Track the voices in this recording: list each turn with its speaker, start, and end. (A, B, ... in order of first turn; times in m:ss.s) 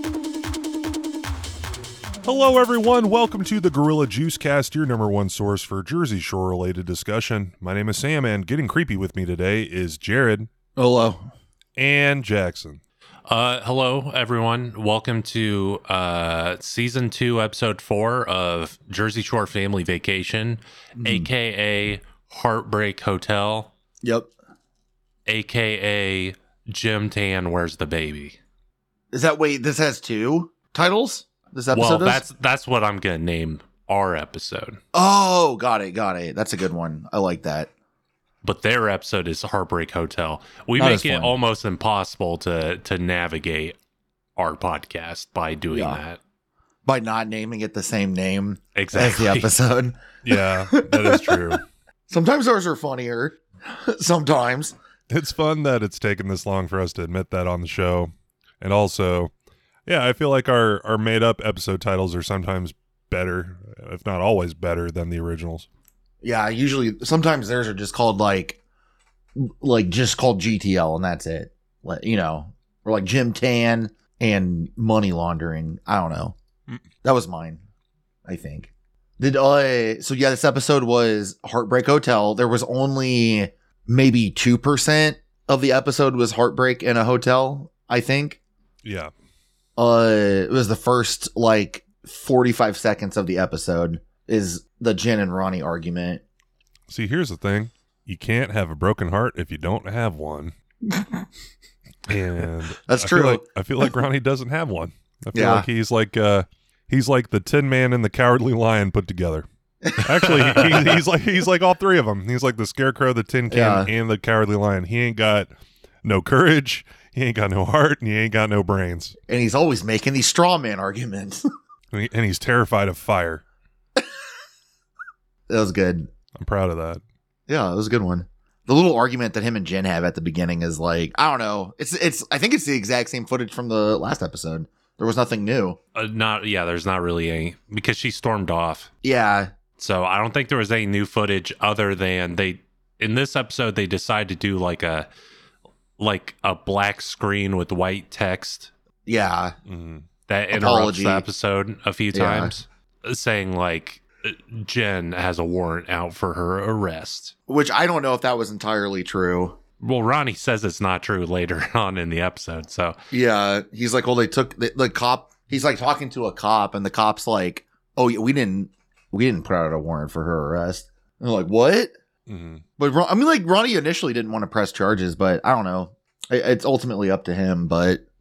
0:02.2-0:10.5 A
0:10.8-0:11.3 B
0:11.8-0:12.8 A
0:13.3-0:23.7 C
0:21.0-0:21.3 B
0:24.0-0:24.3 B
0:25.2-0:28.4 C
0:29.1-0:32.2 B
0:31.7-0:34.8 C
0:34.9-0:37.7 B
0:38.4-0:43.8 C
0:40.8-0:41.3 B
0:44.4-0:46.2 C
0:45.7-0:46.0 B
0:46.8-0:51.6 B
0:48.8-0:49.5 C
0:50.2-0:51.6 A
0:52.1-0:54.7 B
0:55.1-0:59.3 A
0:59.8-1:05.7 A
1:06.2-1:08.6 B
1:09.3-1:16.4 B
1:17.0-1:17.6 B
1:18.2-1:28.4 B
1:28.8-1:29.1 A
1:29.8-1:36.2 B
1:36.9-1:40.5 A
1:40.9-1:41.2 B
1:42.0-1:55.5 A
1:42.9-1:43.4 B
1:45.3-1:45.6 B
1:49.8-1:51.0 B
1:53.5-1:53.9 B
1:56.0-1:59.2 A
1:59.3-2:01.4 B
2:01.9-2:03.4 A
2:05.5-2:06.1 B
2:06.4-2:07.0 A
2:07.5-2:15.8 B
2:15.9-2:18.9 C
2:19.0-2:19.5 B
2:19.8-2:25.1 C
2:26.0-2:28.7 C
2:29.0-2:29.5 B
2:29.6-2:30.0 A
2:30.3-2:37.3 C
2:30.5-2:31.2 B
2:32.1-2:32.5 B
2:37.5-2:39.6 B
2:39.8-2:43.0 C
2:43.1-2:51.9 B
2:52.3-2:52.6 A
2:52.8-2:58.0 B